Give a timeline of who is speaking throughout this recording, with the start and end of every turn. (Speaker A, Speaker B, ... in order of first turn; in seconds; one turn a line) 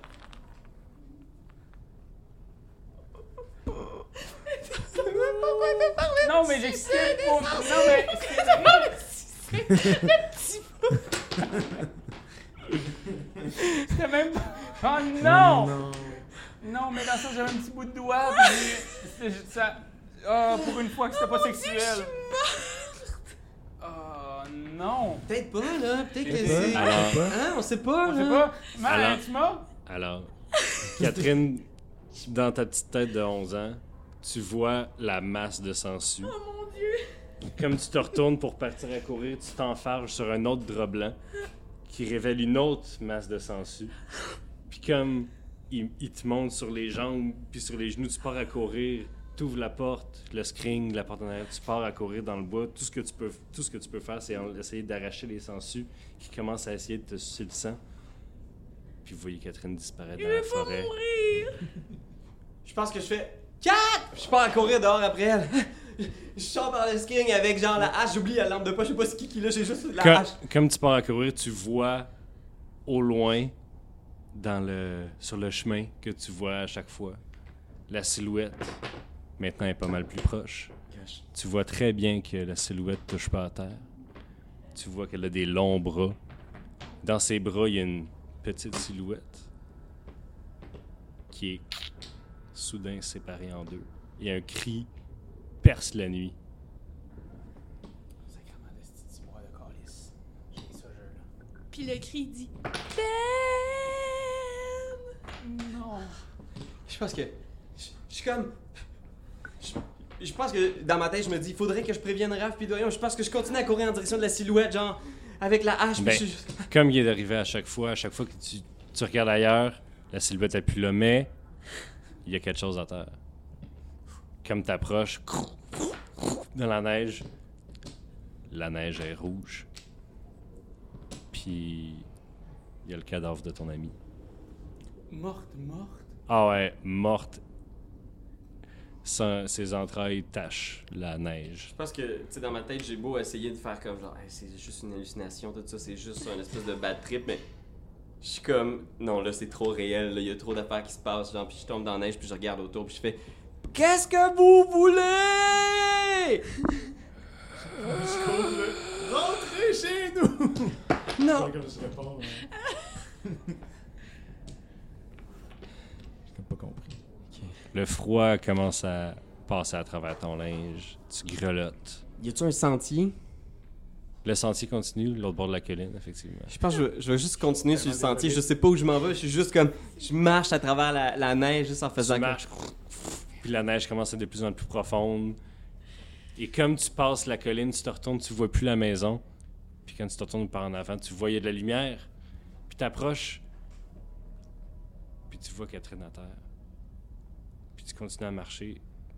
Speaker A: 4.6-11.5
Speaker B: 5.0-6.1
Speaker C: 6.2-9.0
Speaker D: 13.1-13.4
Speaker C: 13.7-15.8
Speaker D: 15.2-16.3
Speaker C: 16.6-22.1
Speaker A: 21.4-23.0
Speaker C: 23.8-25.3
Speaker B: 25.3-28.5
Speaker C: 26.2-26.9
Speaker D: 26.2-27.4
Speaker E: 26.7-27.3
Speaker C: 28.0-29.7
Speaker E: 28.8-29.2
Speaker E: 29.8-30.3
Speaker E: 30.9-36.4
Speaker A: 36.2-37.1
Speaker E: 37.5-41.2
Speaker E: 41.9-43.9
Speaker E: 44.7-57.8
Speaker E: 59.0-60.9
Speaker A: 60.2-61.7
Speaker B: 62.6-70.4
Speaker E: 70.0-72.1
Speaker E: 72.8-73.5
Speaker E: 74.3-77.2
Speaker E: 77.9-78.8
Speaker E: 79.4-80.7
Speaker B: 80.9-81.2
Speaker E: 81.3-83.9
Speaker E: 84.7-86.2
Speaker E: 87.0-89.5
Speaker E: 91.3-91.9
Speaker E: 92.5-94.9
Speaker E: 95.6-96.3
Speaker C: 98.2-101.2
Speaker A: 101.7-104.7
Speaker C: 105.4-106.2
Speaker B: 106.8-108.6
Speaker B: 109.6-116.7
Speaker E: 116.0-121.3
Speaker E: 122.2-123.2
Speaker E: 124.4-127.2
Speaker E: 128.5-129.7
Speaker E: 131.3-132.1
Speaker E: 132.8-133.9
Speaker C: 135.1-136.1
Speaker E: 136.3-137.4
Speaker E: 139.0-141.7
Speaker B: 141.7-147.4
Speaker B: 148.2-156.5
Speaker D: 157.6-162.5
Speaker B: 157.8-158.8
Speaker B: 161.2-161.5
Speaker D: 163.2-163.5
Speaker D: 166.3-167.0
Speaker B: 167.3-167.6
Speaker E: 167.7-172.0
Speaker B: 172.2-173.2
Speaker E: 174.2-176.5
Speaker B: 176.5-182.4
Speaker C: 177.7-178.5
Speaker E: 182.0-185.4
Speaker E: 186.3-189.2
Speaker E: 189.8-192.1
Speaker E: 192.7-193.4
Speaker E: 195.3-196.4
Speaker E: 197.7-198.8